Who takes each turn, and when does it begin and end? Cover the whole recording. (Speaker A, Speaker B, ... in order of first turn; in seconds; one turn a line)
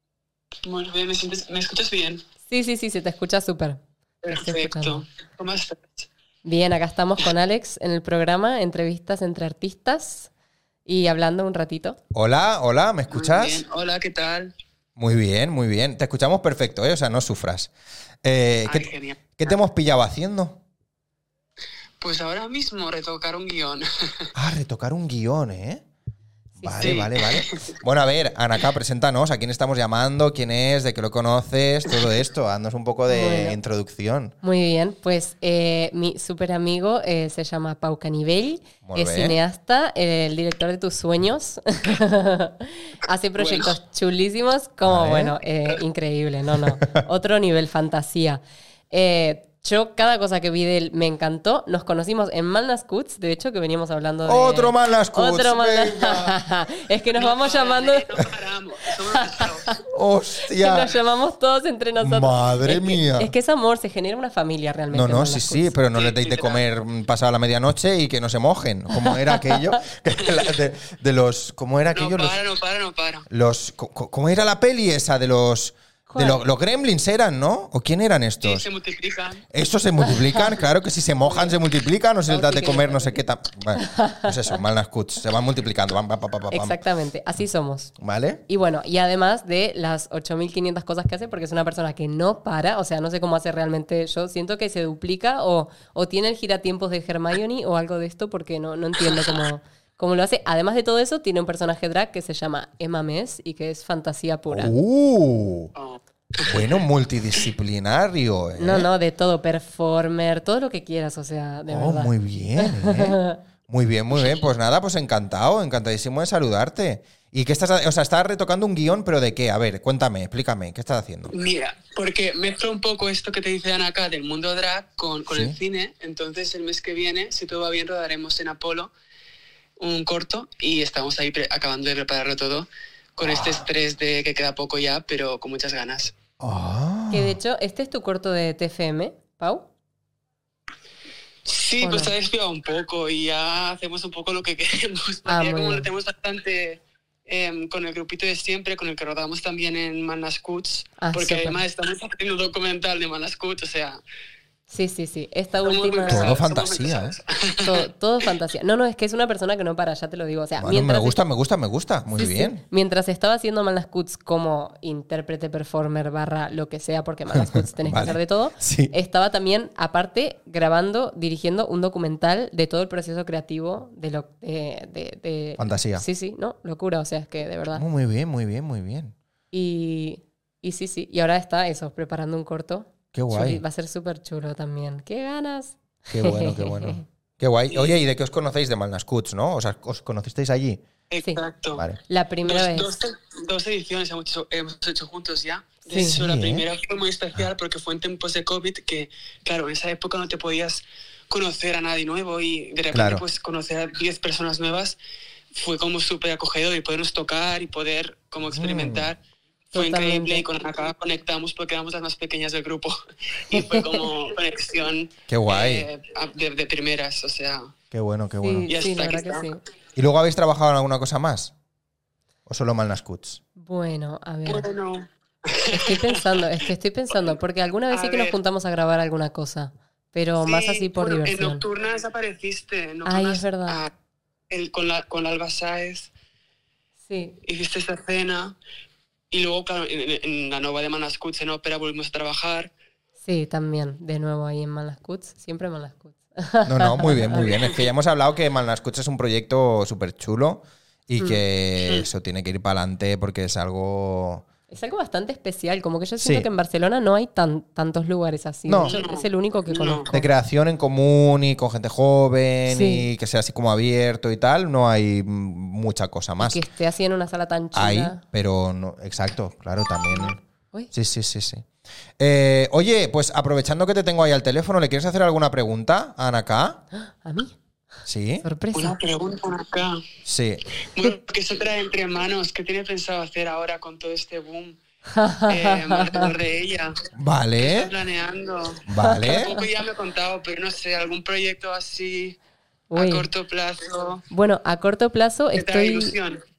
Speaker A: 0.6-2.2
Speaker B: 2.5-5.0
Speaker A: 4.2-6.1
Speaker B: 6.5-10.3
Speaker B: 10.9-12.0
Speaker C: 12.1-13.6
Speaker A: 13.1-14.5
Speaker C: 15.0-17.7
Speaker C: 18.2-20.6
Speaker A: 18.7-19.5
Speaker A: 22.0-24.3
Speaker C: 24.4-25.8
Speaker B: 26.6-27.0
Speaker C: 26.6-34.4
Speaker A: 26.8-27.8
Speaker B: 33.1-33.6
Speaker B: 34.4-58.2
Speaker C: 38.8-39.4
Speaker A: 43.4-43.7
Speaker C: 44.9-45.4
Speaker C: 54.3-56.4
Speaker A: 57.1-59.8
Speaker B: 59.1-59.8
Speaker C: 59.9-61.0
Speaker B: 60.5-65.8
Speaker C: 62.0-63.3
Speaker C: 64.9-72.4
Speaker A: 65.9-66.6
Speaker B: 69.0-69.5
Speaker A: 71.9-73.3
Speaker C: 73.3-78.7
Speaker B: 76.1-76.4
Speaker A: 78.4-79.5
Speaker C: 79.5-86.8
Speaker B: 81.2-81.6
Speaker B: 82.3-83.2
Speaker B: 83.7-84.6
Speaker B: 86.5-87.9
Speaker C: 88.0-88.4
Speaker B: 88.5-104.7
Speaker C: 104.5-105.7
Speaker A: 105.8-106.8
Speaker C: 106.4-108.9
Speaker B: 108.6-113.4
Speaker C: 111.7-121.3
Speaker A: 121.3-128.9
Speaker C: 125.3-125.6
Speaker A: 129.8-136.1
Speaker C: 133.2-133.7
Speaker C: 136.4-137.4
Speaker B: 137.1-139.7
Speaker A: 141.4-154.0
Speaker B: 141.8-142.1
Speaker B: 145.3-145.9
Speaker B: 151.0-151.6
Speaker B: 154.7-156.4
Speaker A: 155.6-157.9
Speaker C: 156.1-157.2
Speaker B: 157.6-161.2
Speaker C: 160.6-162.6
Speaker B: 162.1-177.8
Speaker C: 167.3-168.9
Speaker C: 175.6-176.1
Speaker C: 177.8-179.2
Speaker B: 179.5-187.0
Speaker C: 183.1-183.6
Speaker C: 186.1-190.8
Speaker A: 191.1-191.8
Speaker B: 192.1-192.9
Speaker A: 192.4-205.0
Speaker B: 195.9-196.2
Speaker C: 196.1-196.7
Speaker C: 202.9-203.2
Speaker A: 205.5-209.2
Speaker C: 208.4-209.1
Speaker B: 209.7-210.4
Speaker A: 209.7-217.7
Speaker B: 213.5-214.1
Speaker C: 215.3-215.9
Speaker C: 217.9-218.7
Speaker B: 218.4-219.6
Speaker A: 218.7-219.5
Speaker C: 220.0-221.5
Speaker C: 222.5-223.4
Speaker B: 223.6-224.7
Speaker A: 224.5-226.5
Speaker B: 225.7-231.6
Speaker A: 227.9-228.4
Speaker A: 230.4-233.9
Speaker B: 233.1-233.8
Speaker A: 234.5-236.1
Speaker B: 237.1-237.4
Speaker A: 237.4-238.6
Speaker A: 239.3-242.7
Speaker B: 243.2-247.5
Speaker C: 246.7-254.4
Speaker A: 247.5-247.8
Speaker A: 251.8-252.1
Speaker B: 254.7-260.3
Speaker C: 256.2-256.5
Speaker C: 258.7-258.9
Speaker A: 258.9-260.1
Speaker C: 260.1-266.6
Speaker B: 262.7-263.1
Speaker B: 266.4-268.2
Speaker C: 267.7-270.4
Speaker C: 270.9-271.7
Speaker C: 272.2-276.8
Speaker B: 277.0-277.6
Speaker C: 278.1-278.4
Speaker B: 278.4-279.0
Speaker A: 278.7-280.0
Speaker C: 280.2-280.6
Speaker A: 280.9-284.8
Speaker B: 285.1-286.3
Speaker A: 285.5-287.1
Speaker C: 287.1-287.9
Speaker A: 287.6-292.4
Speaker C: 288.9-289.5
Speaker B: 289.0-289.6
Speaker B: 292.9-293.3
Speaker A: 292.9-294.2
Speaker B: 294.3-296.2
Speaker A: 295.6-296.4